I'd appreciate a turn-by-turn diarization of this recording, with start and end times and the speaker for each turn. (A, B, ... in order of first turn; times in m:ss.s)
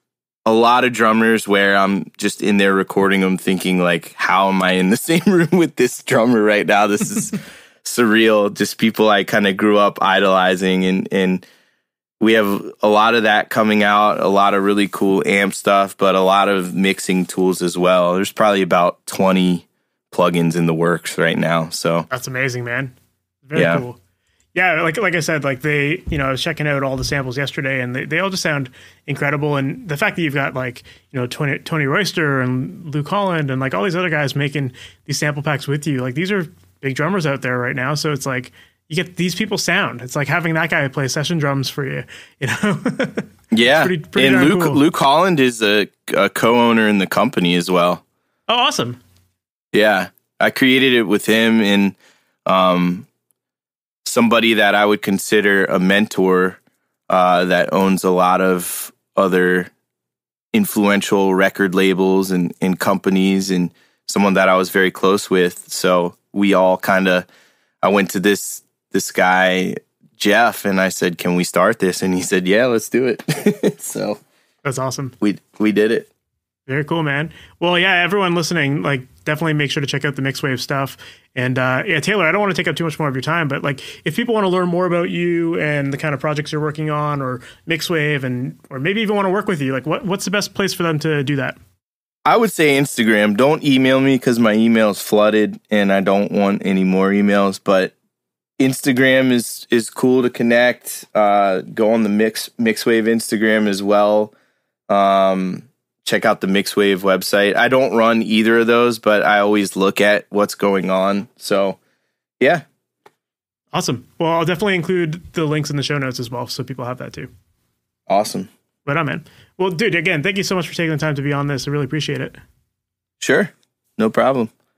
0:00.5-0:11.4 A
0:12.2-0:22.1 A
0:22.1-0:23.0 B
0:23.5-0:24.0 B
0:23.6-0:23.8 A
0:24.6-0:44.8 B
0:43.5-0:48.0 A
0:48.5-0:49.0 B
0:49.7-0:53.1 A
0:54.0-0:59.7 A
1:00.5-1:07.3 A
1:07.8-1:14.2 A
1:14.6-1:15.2 B
1:15.2-1:16.1 A
1:16.7-1:31.6 B
1:32.3-1:37.9 A
1:38.6-1:44.3 A
1:44.9-1:51.8 A
1:52.4-1:52.6 A
1:53.7-1:57.3 B
1:58.1-1:58.5 A
1:58.9-2:02.4 B
2:03.2-2:04.5 A